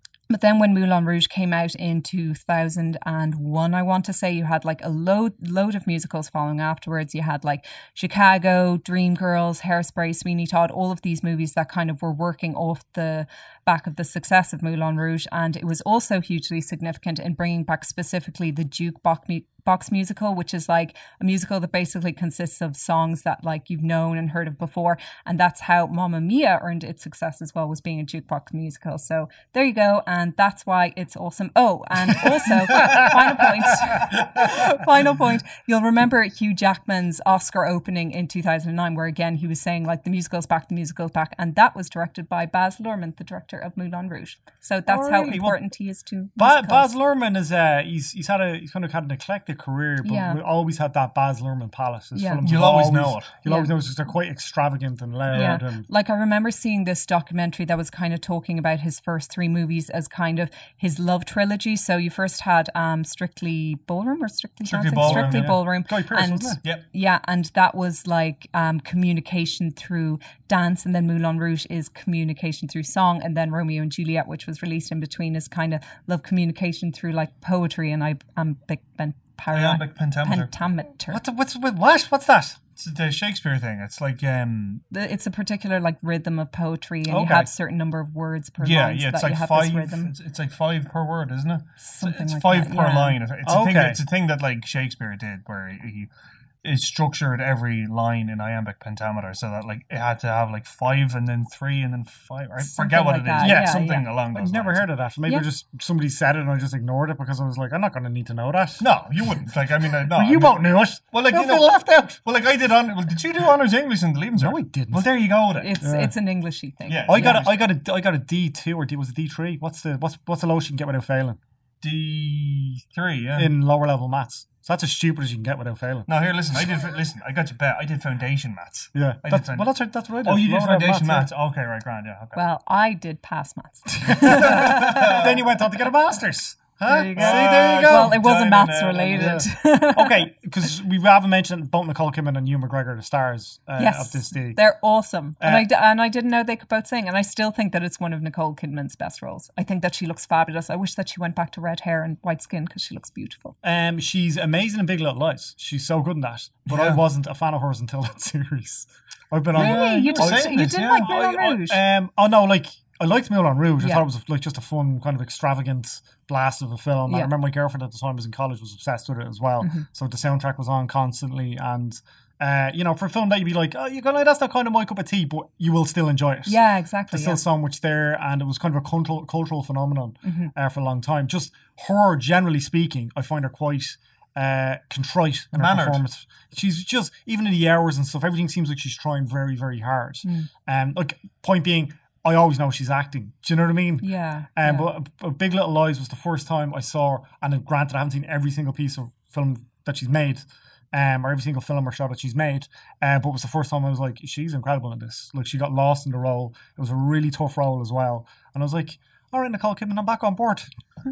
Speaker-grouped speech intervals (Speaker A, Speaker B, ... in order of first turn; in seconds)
Speaker A: 0.3-46.9, 50.0-50.4, 52.1-52.4, 53.4-53.7, 55.3-81.2, 84.9-90.1, 91.8-93.2, 102.6-104.0, 115.6-117.5, 132.3-135.2, 136.8-140.3, 143.8-153.5, 159.5-161.8, 163.8-164.0, 169.6-169.8, 176.4-177.4, 180.2-180.5, 190.2-190.5, 194.0-194.9
Speaker B: 32.7-33.1, 44.9-45.6, 46.4-55.9, 65.0-66.6, 81.1-82.6, 87.0-87.5, 93.4-94.0, 103.4-108.8, 110.0-112.2, 114.3-115.1, 115.8-116.1, 117.1-121.4, 123.3-126.1, 128.9-131.3, 134.0-138.2, 139.2-144.6, 145.4-145.7, 153.6-176.6, 177.1-210.7
Speaker C: 52.4-53.3, 64.6-65.6, 79.5-80.5, 82.8-84.8, 88.6-96.1, 96.6-104.9, 108.8-115.8, 116.9-117.6, 121.8-123.5, 126.1-129.7, 130.2-132.4, 134.2-135.4, 137.1-139.5, 156.7-157.0, 159.5-161.8, 185.5-186.0